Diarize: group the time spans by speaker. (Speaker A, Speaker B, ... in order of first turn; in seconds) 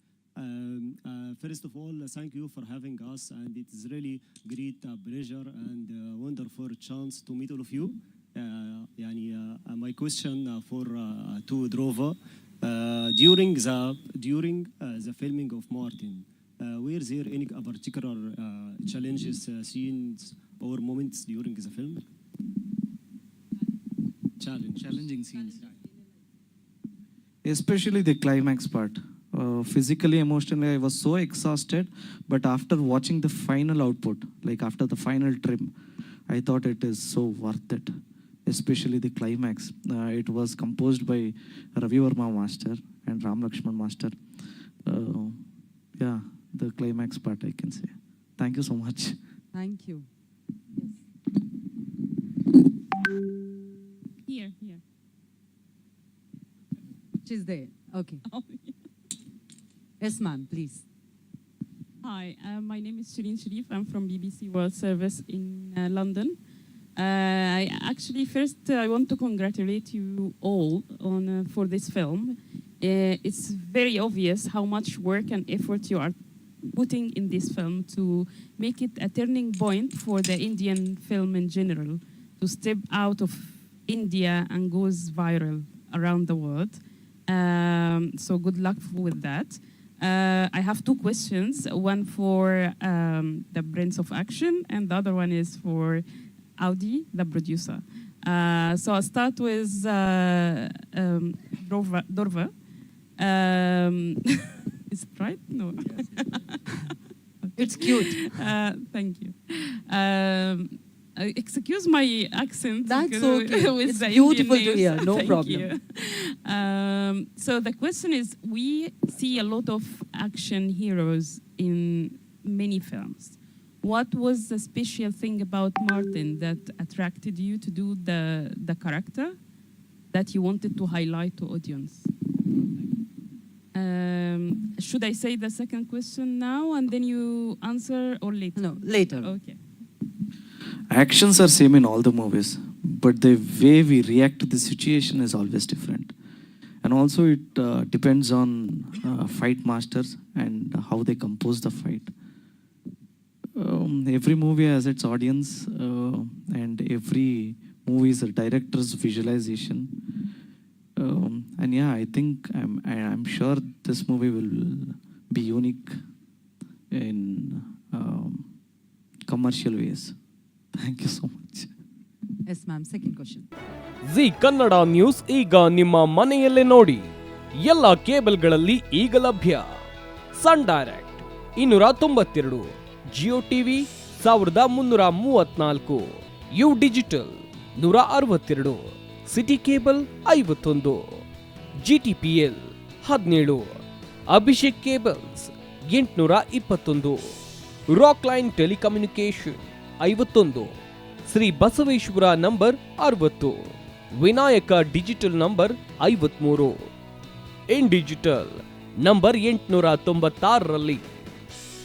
Speaker A: 0.4-22.1, 24.4-25.1, 105.8-106.4
Speaker B: 24.8-25.7, 27.4-35.7, 36.3-37.9, 38.5-44.2, 44.9-45.4, 46.0-49.2, 140.9-146.1, 146.8-152.1, 153.6-160.0, 161.0-166.0, 166.9-168.5, 169.3-170.1, 170.8-171.7
Speaker C: 49.5-50.1, 57.2-58.2, 60.0-60.9, 107.6-108.4, 112.8-115.7, 138.6-139.3, 172.5-173.5
Speaker D: 54.2-54.8, 58.3-58.8, 62.0-66.4, 67.0-96.0, 96.6-102.5, 103.2-106.3, 107.4-129.4, 130.1-132.1, 133.7-139.6
Speaker E: 174.1-177.1, 177.6-179.7, 180.3-191.2, 191.8-197.2, 197.9-200.8, 201.3-206.8, 207.7-211.0